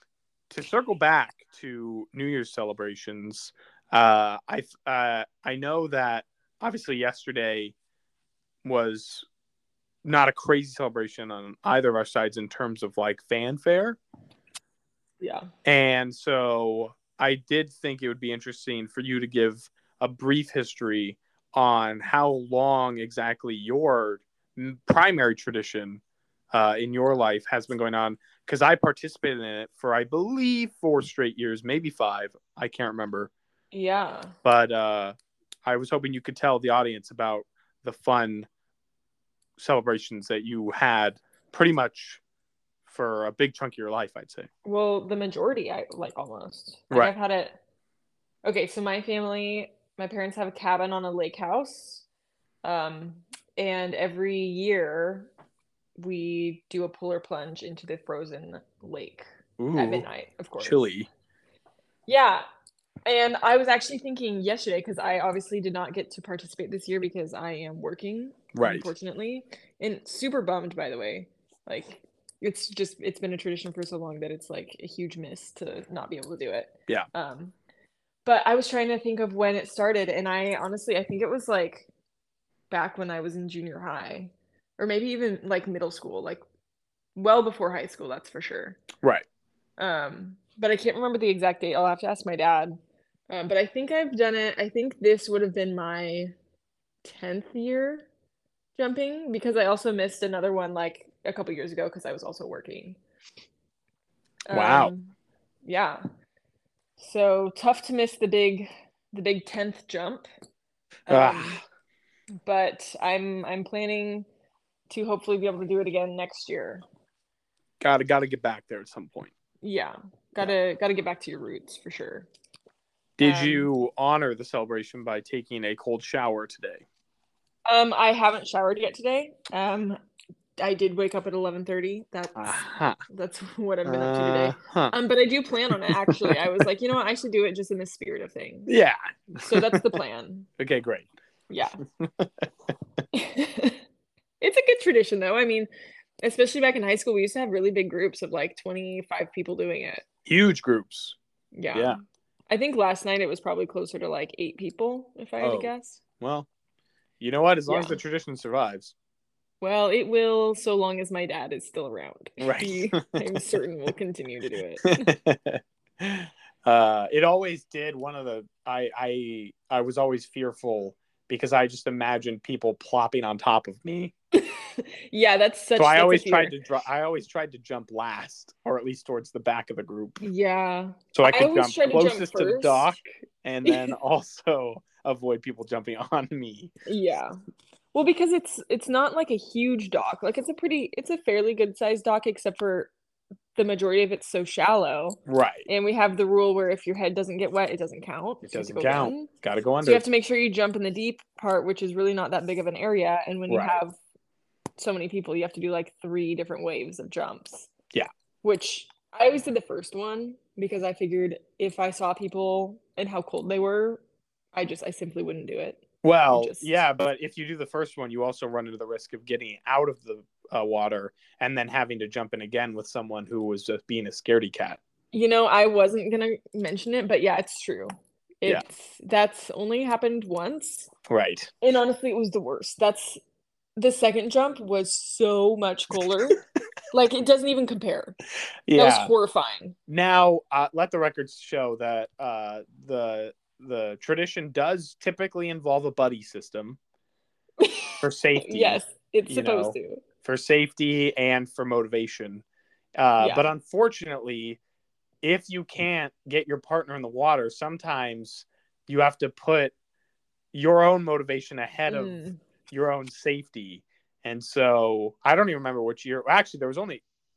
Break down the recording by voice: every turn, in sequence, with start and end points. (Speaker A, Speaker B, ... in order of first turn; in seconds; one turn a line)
Speaker A: 0.5-7.8
Speaker A: 8.6-9.3
Speaker A: 10.0-14.0
Speaker B: 15.2-15.5
Speaker A: 15.7-26.0
Speaker A: 26.5-33.3
Speaker B: 33.7-34.4
Speaker A: 34.5-35.1
Speaker A: 35.7-38.5
Speaker A: 39.6-42.2
Speaker A: 42.9-44.5
Speaker B: 44.6-47.6
Speaker B: 48.5-52.0
Speaker B: 52.6-55.3
Speaker B: 56.0-60.8
Speaker A: 59.6-60.0
Speaker A: 60.6-61.1
Speaker B: 62.1-62.5
Speaker B: 63.1-77.5
Speaker A: 68.5-68.9
Speaker B: 78.2-81.9
Speaker B: 82.7-86.4
Speaker B: 87.2-88.8
Speaker B: 89.8-92.8
Speaker B: 93.3-96.3
Speaker B: 97.0-98.1
Speaker B: 98.8-103.0
Speaker B: 104.5-106.0
Speaker A: 104.5-104.9
Speaker B: 107.0-110.3
Speaker B: 111.1-111.6
Speaker A: 111.1-111.6
Speaker B: 112.4-114.3
Speaker B: 114.9-116.8
Speaker A: 117.8-119.3
Speaker B: 119.6-122.3
Speaker A: 123.2-126.8
Speaker B: 123.2-123.7
Speaker B: 127.7-130.0
Speaker B: 130.6-138.7
Speaker A: 132.4-133.0
Speaker A: 133.9-134.9
Speaker A: 135.7-136.3
Speaker A: 138.7-140.0
Speaker B: 139.4-140.5
Speaker A: 140.6-141.1
Speaker B: 141.5-141.8
Speaker A: 142.0-142.4
Speaker B: 143.1-143.8
Speaker B: 144.4-145.7
Speaker B: 146.2-150.1
Speaker A: 150.3-151.2
Speaker B: 151.5-156.0
Speaker A: 151.7-152.0
Speaker A: 155.4-156.5
Speaker A: 157.2-158.9
Speaker B: 157.7-158.0
Speaker B: 159.6-165.1
Speaker A: 162.4-163.4
Speaker A: 164.8-174.1
Speaker B: 174.3-176.5
Speaker A: 175.8-180.2
Speaker B: 180.2-182.9
Speaker A: 181.1-186.7
Speaker B: 183.7-183.9
Speaker B: 186.9-187.3
Speaker B: 187.9-192.9
Speaker B: 193.6-199.3
Speaker A: 195.3-195.7
Speaker A: 198.4-200.1
Speaker B: 199.8-204.0
Speaker A: 203.5-203.8
Speaker B: 204.8-207.7
Speaker B: 208.4-214.0
Speaker B: 214.5-216.8
Speaker A: 216.0-224.8
Speaker B: 225.1-227.9
Speaker B: 228.4-230.9
Speaker A: 231.1-231.5
Speaker B: 231.6-233.2
Speaker B: 233.8-236.4
Speaker B: 236.9-238.2
Speaker A: 238.7-239.1
Speaker B: 238.7-239.8
Speaker A: 239.9-246.8
Speaker B: 247.6-250.0
Speaker A: 248.0-252.4
Speaker A: 253.0-254.6
Speaker B: 253.2-253.5
Speaker A: 255.2-259.7
Speaker A: 260.5-267.0
Speaker B: 261.9-262.4